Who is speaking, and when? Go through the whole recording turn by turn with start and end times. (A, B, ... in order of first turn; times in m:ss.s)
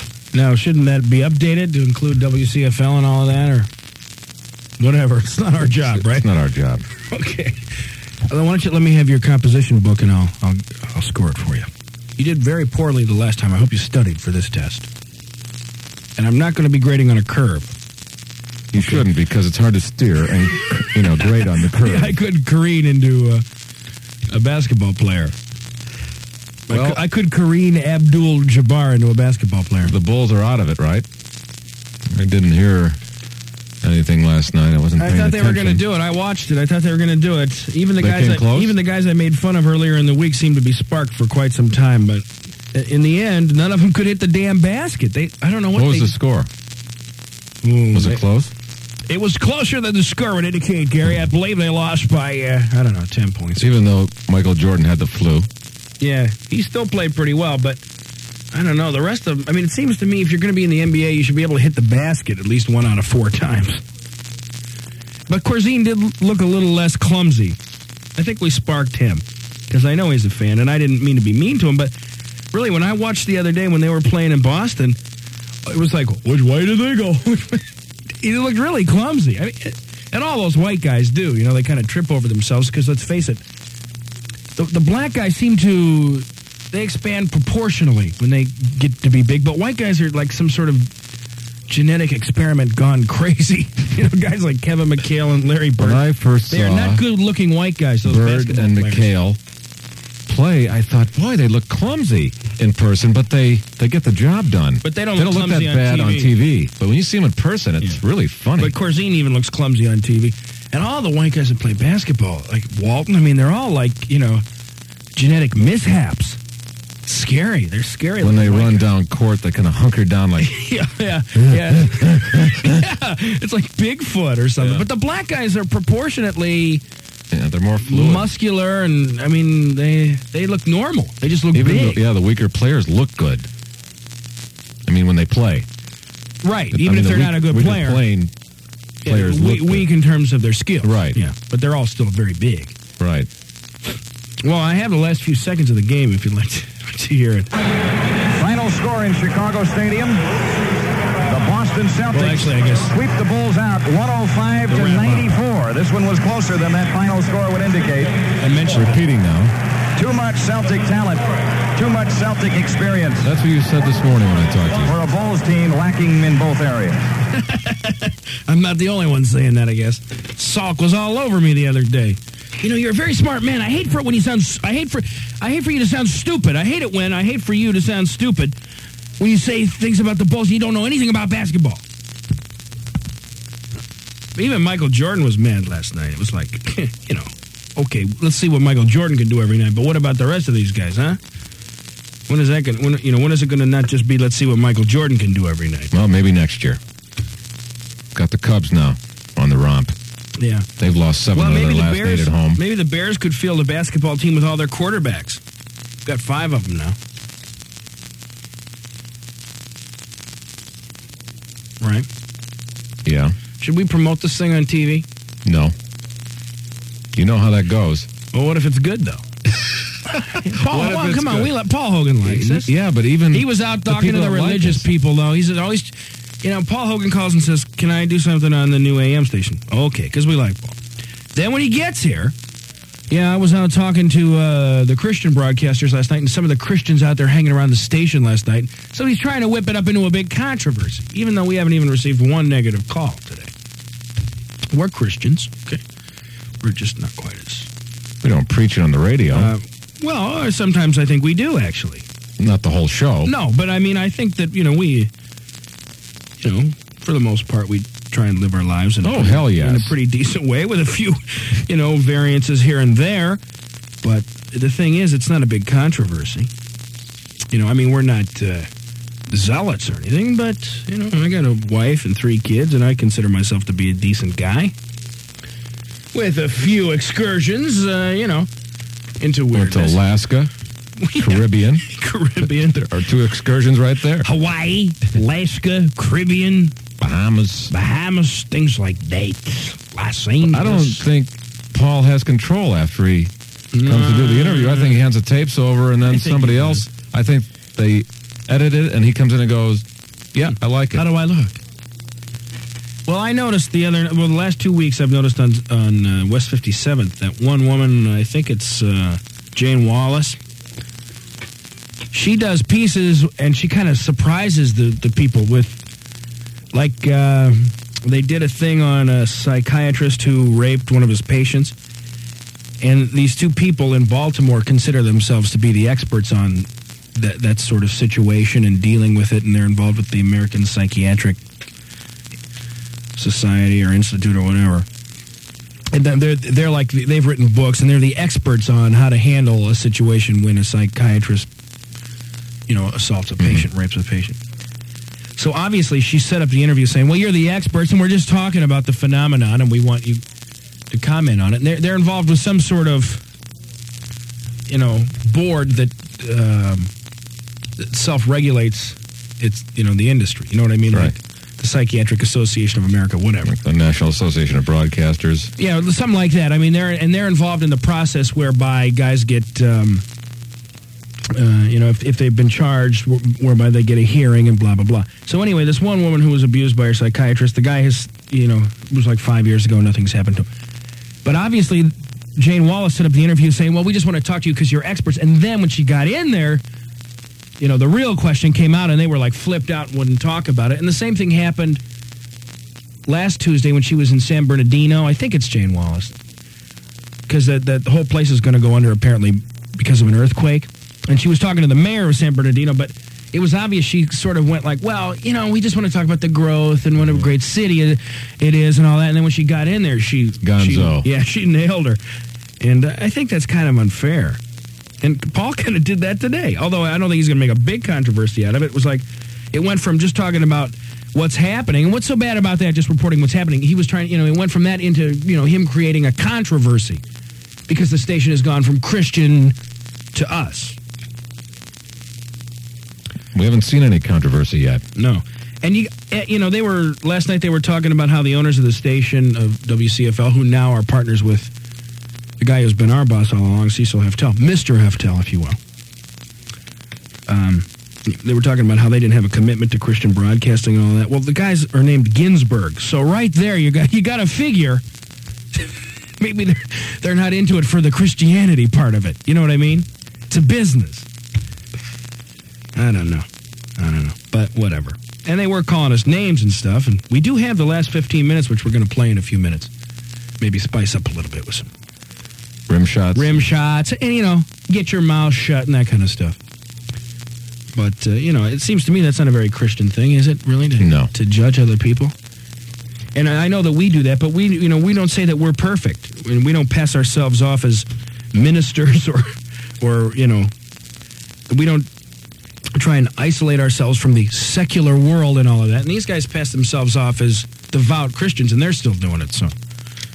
0:00.3-0:03.7 A
0:04.8-0:06.3 A
0:05.7-0:06.8 B
0:07.1-0:07.6 A
0:08.3-0:14.9 A
0:16.2-0:17.7 A
0:18.7-0:22.1 B
0:18.8-0:19.1 A
0:21.2-0:23.4 A
0:24.3-0:25.3 A
0:26.7-0:29.9 A
0:26.7-0:27.0 B
0:29.8-0:31.0 B
0:32.1-0:33.0 B
0:33.8-0:35.8 B
0:35.0-0:46.2 A
0:38.0-0:38.8 B
0:45.8-0:46.5 B
0:47.6-0:48.2 A
0:47.9-0:48.5 B
0:49.1-0:53.7 A
0:53.6-0:55.5 B
0:56.0-0:57.8 A
0:58.5-1:03.8 A
1:05.3-1:07.6 A
1:08.2-1:11.9 A
1:12.5-1:15.0 A
1:15.7-1:17.6 A
1:18.2-1:23.4 A
1:24.6-1:30.9 A
1:31.7-1:39.1 A
1:35.8-1:37.0 B
1:38.0-1:39.4 B
1:40.3-1:48.8 B
1:44.8-1:46.3 A
1:48.6-1:54.4 A
1:55.2-1:56.4 A
1:57.1-1:58.9 A
1:58.2-2:00.5 B
2:00.4-2:06.8 A
2:01.4-2:02.5 B
2:04.6-2:04.8 B
2:07.3-2:08.3 B
2:07.8-2:12.0 A
2:11.5-2:13.5 B
2:14.9-2:15.7 B
2:16.4-2:18.0 A
2:16.7-2:18.3 B
2:19.0-2:19.9 B
2:19.0-2:22.8 A
2:20.8-2:21.2 B
2:22.9-2:23.3 B
2:24.4-2:27.5 A
2:28.4-2:30.2 C
2:31.3-2:38.3 C
2:32.1-2:32.9 A
2:34.7-2:35.3 A
2:38.4-2:39.0 A
2:38.7-2:39.5 B
2:40.0-2:43.3 C
2:43.2-2:44.9 B
2:44.8-2:47.0 C
2:47.3-2:58.6 A
2:59.2-3:01.8 A
3:04.4-3:11.2 A
3:12.3-3:15.9 A
3:15.9-3:16.8 B
3:18.2-3:19.9 B
3:20.4-3:20.7 A
3:20.8-3:22.6 B
3:21.3-3:25.4 A
3:26.0-3:27.0 A
3:31.8-3:32.1 A
3:33.1-3:33.4 B
3:33.5-3:35.1 A
3:35.4-3:35.7 B
3:37.2-3:38.1 B
3:38.3-3:39.3 A
3:40.4-3:42.7 A
3:40.5-3:41.5 B
3:42.2-3:44.9 B
3:43.3-3:50.8 A
3:51.4-3:52.3 A
3:53.1-4:03.5 A
4:04.7-4:05.8 A
4:06.6-4:07.7 A
4:08.2-4:09.5 B
4:09.3-4:12.1 A
4:12.4-4:13.3 B
4:13.3-4:15.1 A
4:16.4-4:23.4 A
4:19.0-4:19.9 B
4:24.0-4:26.5 A
4:27.5-4:28.7 A
4:29.3-4:34.7 A
4:36.1-4:38.5 A
4:39.2-4:40.0 A
4:39.5-4:40.5 B
4:41.0-4:42.9 A
4:41.2-4:41.8 B
4:42.4-4:44.3 B
4:44.2-4:46.8 A
4:47.0-4:47.7 B
4:47.7-4:51.0 A
4:50.4-4:53.3 B
4:53.7-4:55.0 A
4:53.8-4:59.8 B
4:56.1-4:56.9 A
5:00.4-5:01.6 A
5:00.4-5:01.1 B
5:03.1-5:10.4 A
5:12.1-5:15.8 A
5:16.7-5:21.7 A
5:22.8-5:31.4 A
5:33.2-5:34.9 A
5:35.9-5:41.5 A
5:42.7-5:44.4 A
5:43.4-5:43.7 B
5:45.4-5:50.2 A
5:50.9-5:53.2 A
5:54.7-5:56.9 A
5:57.8-6:03.6 A
6:03.4-6:05.5 B
6:05.6-6:10.0 A
6:11.3-6:20.5 A
6:21.2-6:26.6 A
6:27.6-6:31.8 A
6:33.1-6:36.1 A
6:37.3-6:52.0 A
6:50.4-6:51.1 B
6:52.6-6:54.4 A
6:55.0-7:07.0 A
7:07.7-7:09.6 A
7:10.1-7:10.8 A
7:13.3-7:14.8 B
7:15.0-7:21.5 A
7:22.4-7:25.6 A
7:27.3-7:34.8 A
7:36.2-7:41.1 A
7:42.8-7:43.3 A
7:43.8-7:49.7 A
7:50.4-7:51.7 A
7:52.7-7:53.4 B
7:53.2-7:56.4 A
7:57.8-8:02.1 A
8:00.8-8:01.1 B
8:03.2-8:09.3 A
8:09.8-8:10.5 A
8:11.5-8:11.9 A
8:12.8-8:19.6 A